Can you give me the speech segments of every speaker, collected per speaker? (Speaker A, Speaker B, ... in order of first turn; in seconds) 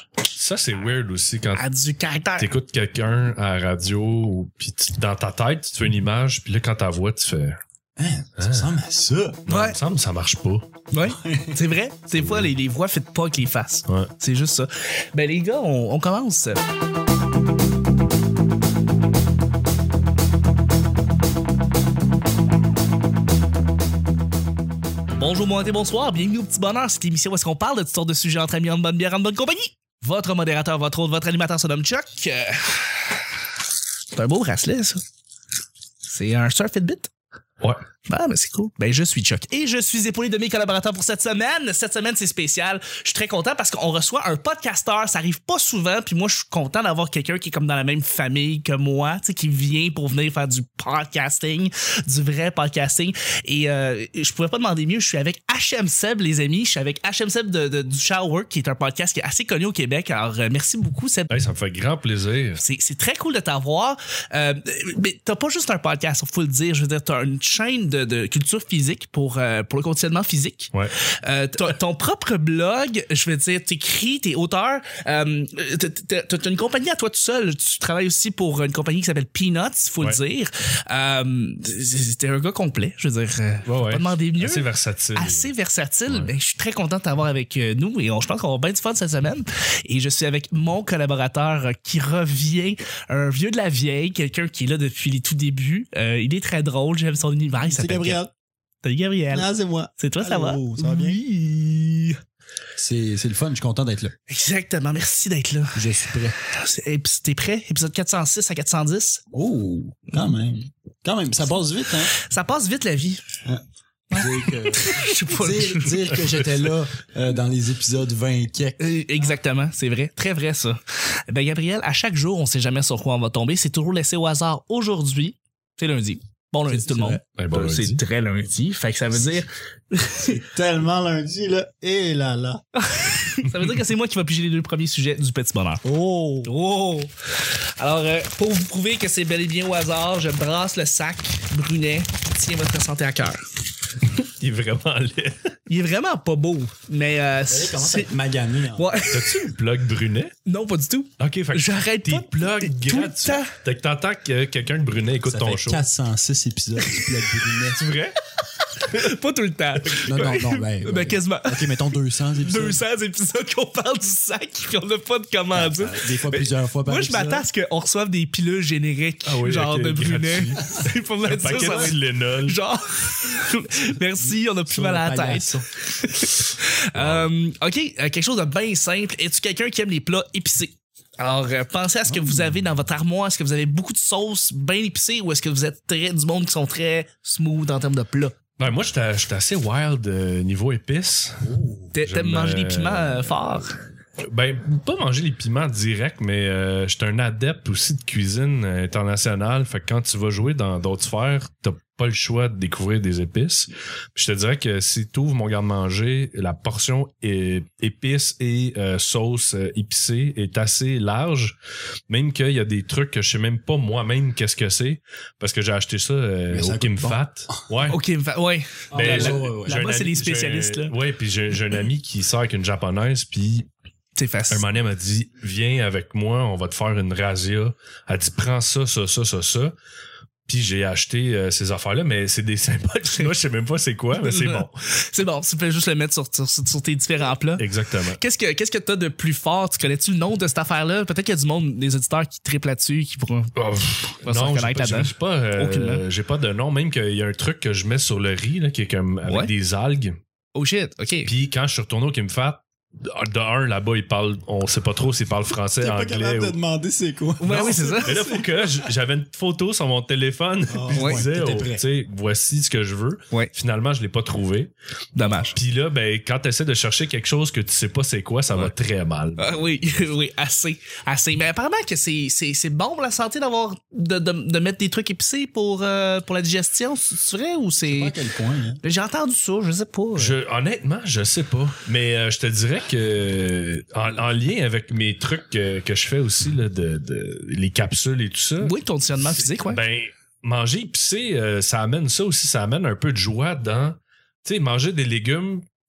Speaker A: 0.3-1.7, 2.4-7.6, 8.4-8.8, 9.5-10.7, 12.2-12.5, 61.3-62.6, 83.7-85.5, 127.4-128.0, 144.1-145.4, 149.1-150.3, 151.2-155.8, 157.8-158.2, 169.2-172.6, 176.9-177.3, 188.6-193.6, 194.2-211.6, 212.1-218.0, 218.9-223.7, 224.5-229.8, 230.5-234.7, 237.6-238.2, 243.6-250.2, 251.3-256.6, 258.0-264.7, 265.3-269.6, 280.1-295.6
Speaker B: 1.6-2.5, 9.5-9.8, 10.9-16.6, 25.2-33.5, 34.1-35.0, 36.1-37.1, 38.0-61.3, 62.6-98.2, 98.8-102.2, 104.3-109.2, 112.1-113.2, 114.1-116.2, 118.8-130.4, 132.8-135.8, 136.4-143.4, 145.7-148.1, 148.8-149.4, 150.5-153.6, 156.8-157.1, 158.5-161.8, 162.4-188.3, 191.9-193.8, 217.9-220.9, 224.2-224.7, 234.2-243.5, 244.2-246.1, 250.5-251.3, 257.4-258.2, 260.9-261.2, 265.2-265.6, 269.4-278.1, 278.8-280.4, 288.6-289.8
Speaker C: 8.0-9.4, 11.1-11.6, 97.7-98.3, 99.3-101.2, 102.8-104.1, 105.7-106.4, 109.3-112.1, 113.5-118.9, 126.7-127.2, 130.3-132.6, 135.8-136.5, 147.5-149.0, 155.3-157.9, 160.0-162.8, 165.5-167.5, 171.5-171.9, 174.2-175.7, 182.1-182.5, 216.5-217.5, 218.9-219.8, 255.8-258.8, 260.7-261.9, 277.9-278.8